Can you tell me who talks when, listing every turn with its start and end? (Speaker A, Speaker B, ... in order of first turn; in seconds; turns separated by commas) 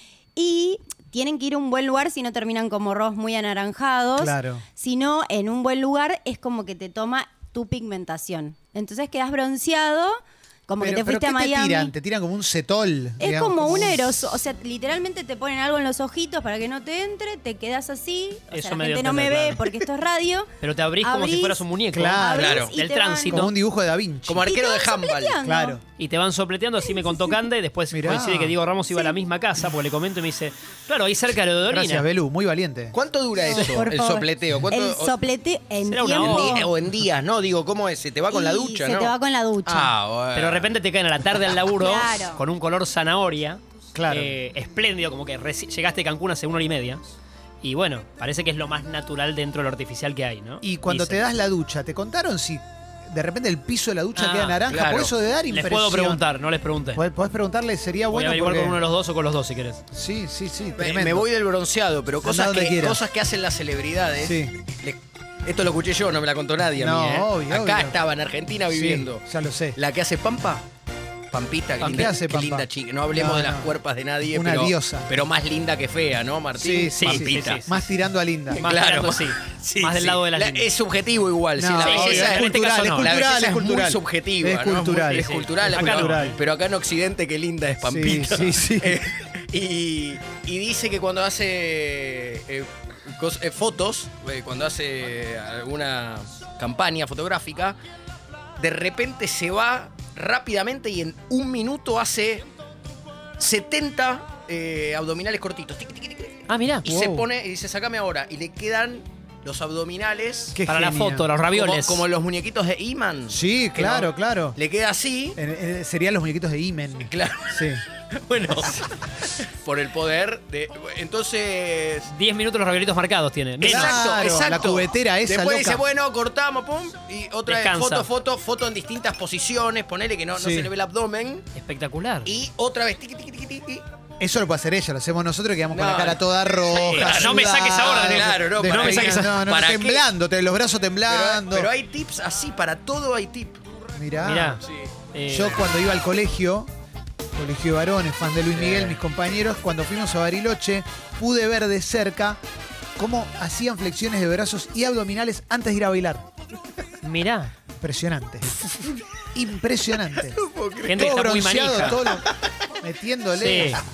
Speaker A: 0.3-11.9, Speaker B: 4.2-4.6, Speaker B: 10.8-14.2, Speaker A: 13.2-20.5, Speaker C: 18.5-19.6, Speaker C: 20.6-23.5, Speaker A: 21.0-21.6, Speaker B: 21.9-22.6, Speaker A: 22.2-23.4, Speaker D: 22.3-22.7, Speaker B: 23.3-24.5, Speaker D: 24.3-25.4, Speaker A: 24.4-25.8, Speaker B: 25.4-25.8, Speaker C: 26.0-32.0, Speaker A: 27.0-27.3, Speaker B: 27.9-28.6, Speaker A: 28.9-29.2, Speaker B: 31.7-33.0, Speaker D: 32.9-35.1, Speaker A: 33.4-36.7, Speaker C: 35.8-36.7, Speaker D: 36.1-39.1, Speaker A: 38.3-39.9, Speaker D: 39.6-40.7, Speaker C: 40.3-47.0, Speaker A: 41.8-42.4, Speaker B: 43.9-44.4, Speaker C: 47.6-51.2, Speaker B: 50.6-56.2, Speaker C: 54.1-54.7, Speaker D: 54.7-55.1, Speaker C: 55.5-57.0, Speaker B: 56.9-58.8, Speaker C: 58.1-59.8, Speaker B: 59.9-61.3, Speaker D: 60.8-69.2, Speaker B: 62.2-63.0, Speaker B: 64.2-64.5, Speaker B: 66.7-68.0, Speaker B: 68.7-69.8, Speaker D: 69.8-70.6, Speaker D: 71.3-77.6, Speaker B: 71.8-73.7, Speaker C: 71.8-72.1, Speaker B: 74.3-75.1, Speaker B: 76.5-78.7, Speaker C: 76.9-77.8, Speaker D: 78.5-97.8, Speaker C: 78.5-80.7, Speaker B: 81.6-86.4, Speaker C: 81.8-83.1, Speaker C: 85.1-86.4, Speaker B: 87.8-89.0, Speaker D: 98.6-102.5, Speaker D: 103.4-110.6, Speaker C: 106.5-106.9, Speaker B: 106.8-107.3, Speaker B: 110.5-111.3, Speaker C: 110.6-112.0, Speaker D: 111.5-115.4, Speaker B: 113.3-114.6, Speaker B: 115.3-117.8, Speaker D: 117.1-122.1, Speaker C: 122.1-124.2, Speaker D: 123.6-131.4, Speaker B: 123.6-125.8, Speaker C: 127.5-128.1, Speaker B: 130.3-130.7, Speaker C: 131.5-132.3, Speaker D: 132.2-133.8, Speaker B: 134.2-141.7, Speaker D: 135.7-140.1, Speaker C: 136.7-139.4, Speaker D: 141.1-143.6, Speaker B: 143.9-144.6, Speaker C: 144.2-145.6, Speaker D: 144.6-144.9, Speaker B: 145.3-146.7, Speaker B: 147.3-152.4, Speaker D: 148.5-149.0, Speaker B: 153.0-156.2, Speaker C: 157.0-157.5, Speaker B: 157.8-158.6, Speaker B: 159.3-160.4, Speaker D: 160.2-161.1, Speaker C: 160.9-162.0, Speaker B: 160.9-162.3, Speaker D: 161.7-162.5, Speaker B: 162.8-163.8, Speaker C: 163.3-163.8